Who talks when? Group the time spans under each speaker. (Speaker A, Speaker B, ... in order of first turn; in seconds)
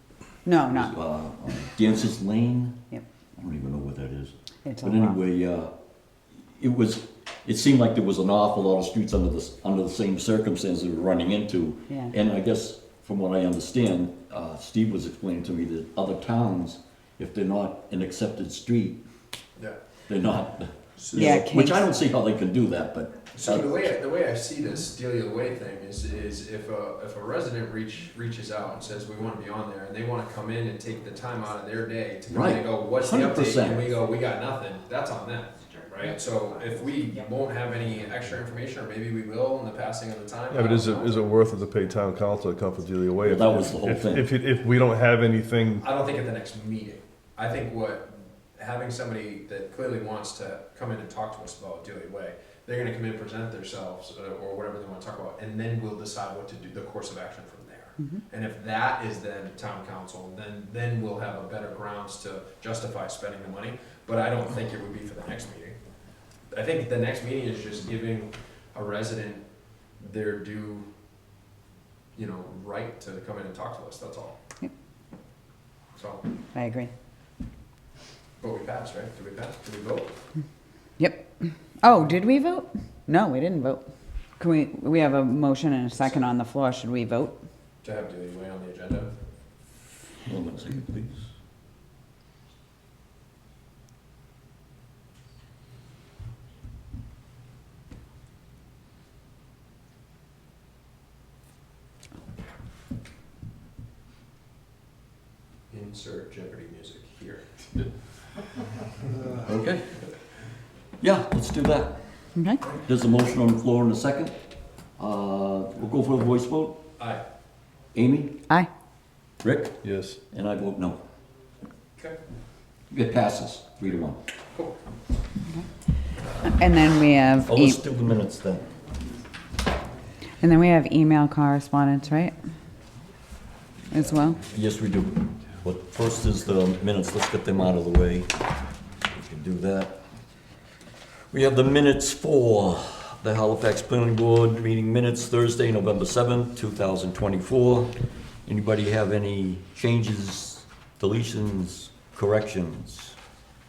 Speaker A: 0.5-0.9, 4.7-5.2, 11.9-12.1, 21.1-21.9, 76.5-76.9, 81.0-87.4, 112.4-112.7, 126.4-127.8, 130.4-132.4, 133.9-134.5
Speaker B: 0.7-2.9, 3.4-5.7, 6.4-19.0, 20.1-23.7, 32.3-33.9, 43.2-44.3, 90.2-91.3, 109.5-109.9, 111.0-112.0, 112.7-114.4, 115.0-116.8, 117.9-118.5, 119.4-121.0, 122.9-124.2, 127.4-128.7, 134.5-138.3, 139.1-140.0, 141.3-147.9, 148.5-153.2
Speaker C: 21.0-21.5, 23.4-41.3, 45.8-65.8, 66.5-69.4, 70.0-70.9, 72.2-74.4, 76.0-76.2, 78.4-80.1, 86.0-86.3, 87.8-89.1, 105.7-107.9, 117.0-117.2, 124.5-124.8
Speaker D: 40.5-45.9, 119.8-120.2